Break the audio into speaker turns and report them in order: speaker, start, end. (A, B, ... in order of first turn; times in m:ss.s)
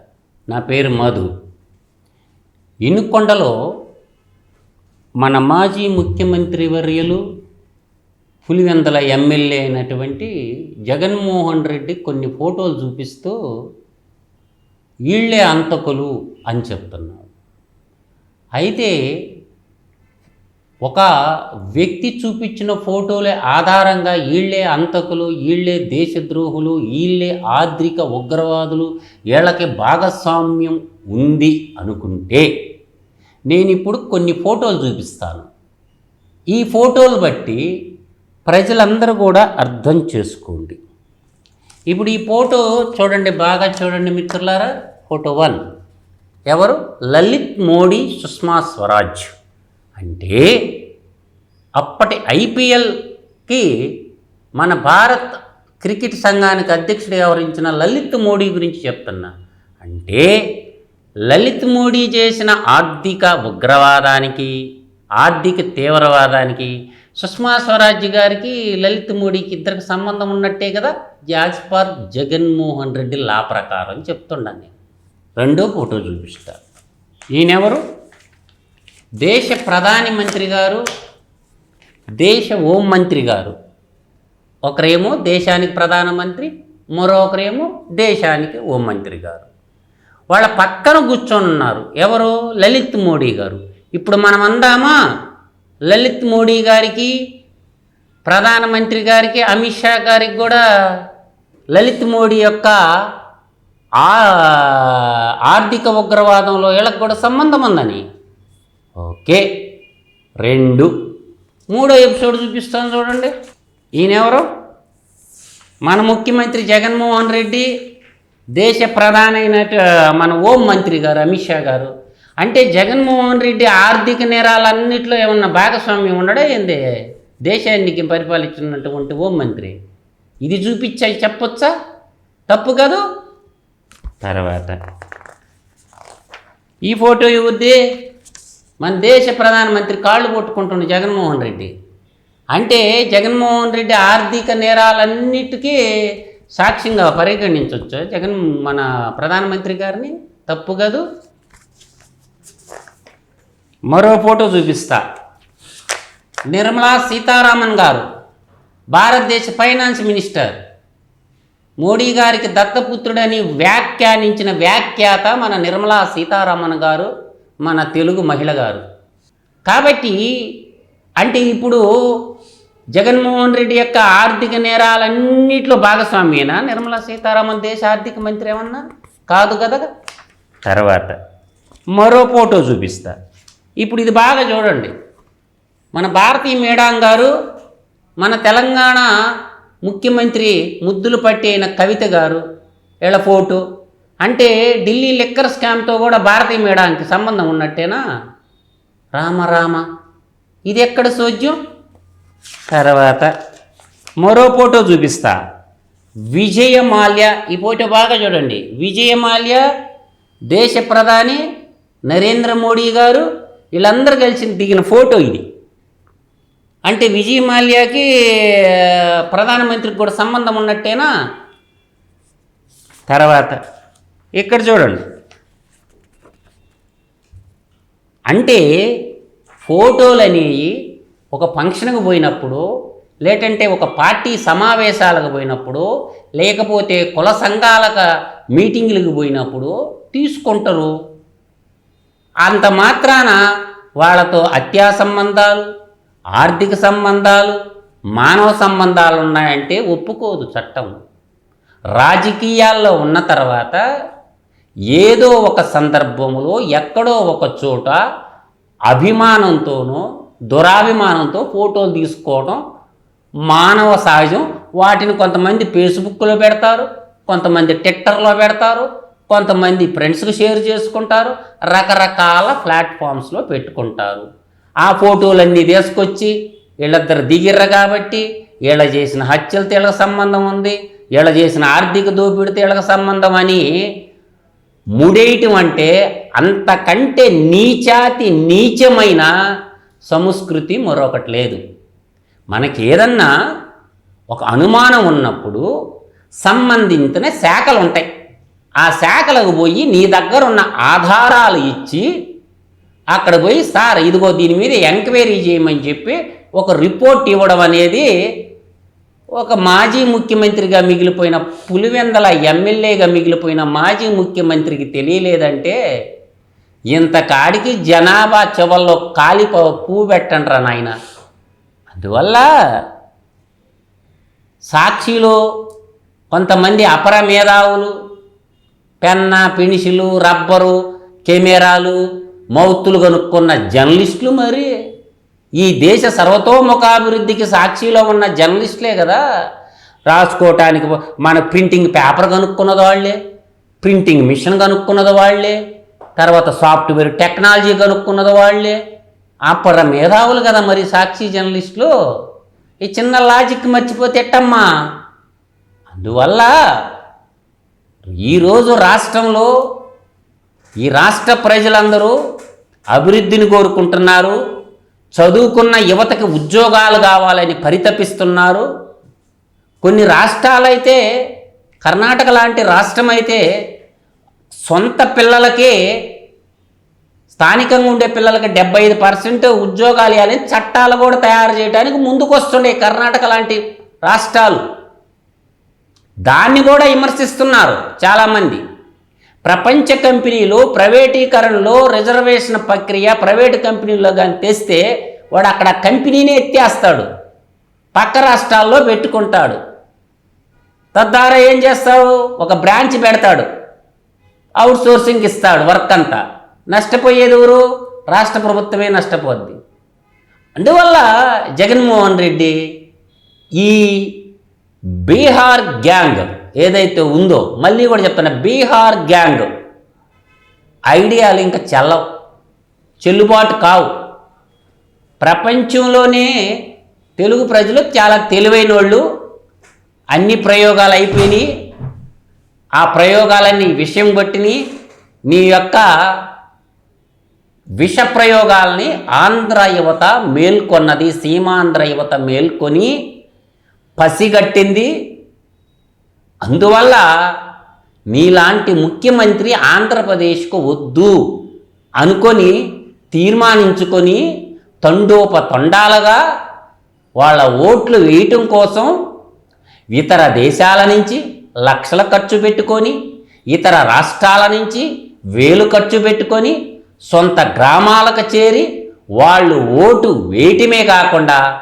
0:00.5-0:01.3 A
0:02.8-0:03.5 A
0:05.2-0:07.2 A
0:08.4-0:10.3 A
0:10.9-0:13.4 A
0:15.1-0:17.3 A
0:18.6-0:18.9 A
0:21.7-0:32.5 A
0:33.5-0:35.5 A
0:36.5-0:37.6 A
0:38.5-0:40.8 A
0:41.9-0:45.6 A
0:46.5-0:49.3 A
0:50.0-0:50.5 A
0:51.8-0:52.9 A
0:54.6-0:55.3 A
0:55.8-1:00.3 A
1:01.3-1:04.5 A
1:05.2-1:14.7 A
1:15.4-1:16.6 A
1:17.3-1:17.8 A
1:19.2-1:20.8 A
1:22.2-1:23.6 A
1:24.7-1:29.5 A
1:30.3-1:35.0 A
1:35.9-1:37.1 A
1:38.3-1:40.6 A
1:41.7-1:42.8 A
1:44.0-1:48.0 A
1:49.0-1:49.4 A
1:50.4-1:50.9 A
1:51.7-1:53.3 A
1:54.0-1:54.5 A
1:55.9-1:57.7 A
1:58.6-2:01.9 A
2:02.4-2:06.8 A
2:07.5-2:09.8 A
2:10.4-2:11.7 A
2:12.5-2:13.0 A
2:14.2-2:14.8 A
2:16.9-2:17.8 A
2:18.8-2:21.7 A
2:22.6-2:25.8 A
2:26.6-2:31.0 A
2:33.9-2:35.0 A
2:36.5-2:38.0 A
2:38.9-2:40.6 A
2:41.8-2:47.1 A
2:47.6-2:48.8 A
2:49.7-2:50.2 A
2:51.2-2:51.8 A
2:53.0-2:59.9 A
3:00.7-3:01.2 A
3:02.0-3:03.1 A
3:03.8-3:04.9 A
3:05.9-3:07.3 A
3:08.2-3:09.1 A
3:09.9-3:12.4 A
3:13.0-3:13.6 A
3:14.2-3:18.0 A
3:19.2-3:19.8 A
3:20.7-3:21.6 A
3:22.7-3:23.3 A
3:24.2-3:25.4 A
3:26.3-3:29.6 A
3:30.5-3:31.4 A
3:32.1-3:35.4 A
3:36.9-3:41.1 A
3:43.1-3:43.6 A
3:44.4-3:45.0 A
3:48.3-3:48.6 A
3:49.6-3:50.7 A
3:51.3-3:52.6 A
3:53.2-3:55.9 A
3:56.4-4:00.9 A
4:02.4-4:03.4 A
4:04.0-4:05.7 A
4:06.4-4:07.6 A
4:08.2-4:10.9 A
4:12.0-4:13.8 A
4:14.9-4:18.0 A
4:18.9-4:22.6 A
4:23.5-4:34.2 A
4:34.8-4:43.7 A
4:45.0-4:49.3 A
4:50.1-4:51.6 A
4:52.5-4:53.3 A
4:54.3-4:55.6 A
4:56.4-4:58.1 A
4:58.8-5:02.1 A
5:03.1-5:08.1 A
5:09.4-5:15.8 A
5:16.9-5:20.9 A
5:21.9-5:22.5 A
5:24.7-5:25.4 A
5:26.3-5:27.9 A
5:29.0-5:32.0 A
5:32.5-5:34.7 A
5:35.6-5:39.2 A
5:40.1-5:43.2 A
5:43.8-5:45.6 A
5:46.2-5:48.8 A
5:49.5-5:51.9 A
5:52.8-5:54.7 A
5:55.9-5:56.5 A
5:58.1-5:59.5 A
6:00.9-6:02.1 A
6:02.9-6:04.4 A
6:05.2-6:08.7 A
6:09.8-6:11.0 A
6:11.8-6:13.4 A
6:14.7-6:15.8 A
6:17.3-6:24.6 A
6:26.3-6:28.6 A
6:29.5-6:34.8 A
6:35.3-6:37.1 A
6:38.0-6:39.6 A
6:41.0-6:43.5 A
6:44.6-6:46.2 A
6:46.7-6:49.6 A
6:50.6-6:52.6 A
6:53.6-6:54.1 A
6:55.0-6:59.5 A
7:00.9-7:02.0 A
7:03.0-7:03.9 A
7:05.2-7:06.3 A
7:07.2-7:09.0 A
7:10.1-7:11.5 A
7:12.8-7:14.6 A
7:15.3-7:15.8 A
7:17.8-7:22.9 A
7:24.0-7:24.9 A
7:26.5-7:27.0 A
7:28.1-7:31.2 A
7:32.0-7:32.6 A
7:33.1-7:34.2 A
7:34.8-7:36.2 A
7:37.2-7:38.9 A
7:40.0-7:43.0 A
7:43.5-7:46.6 A
7:47.1-7:48.7 A
7:49.2-7:51.4 A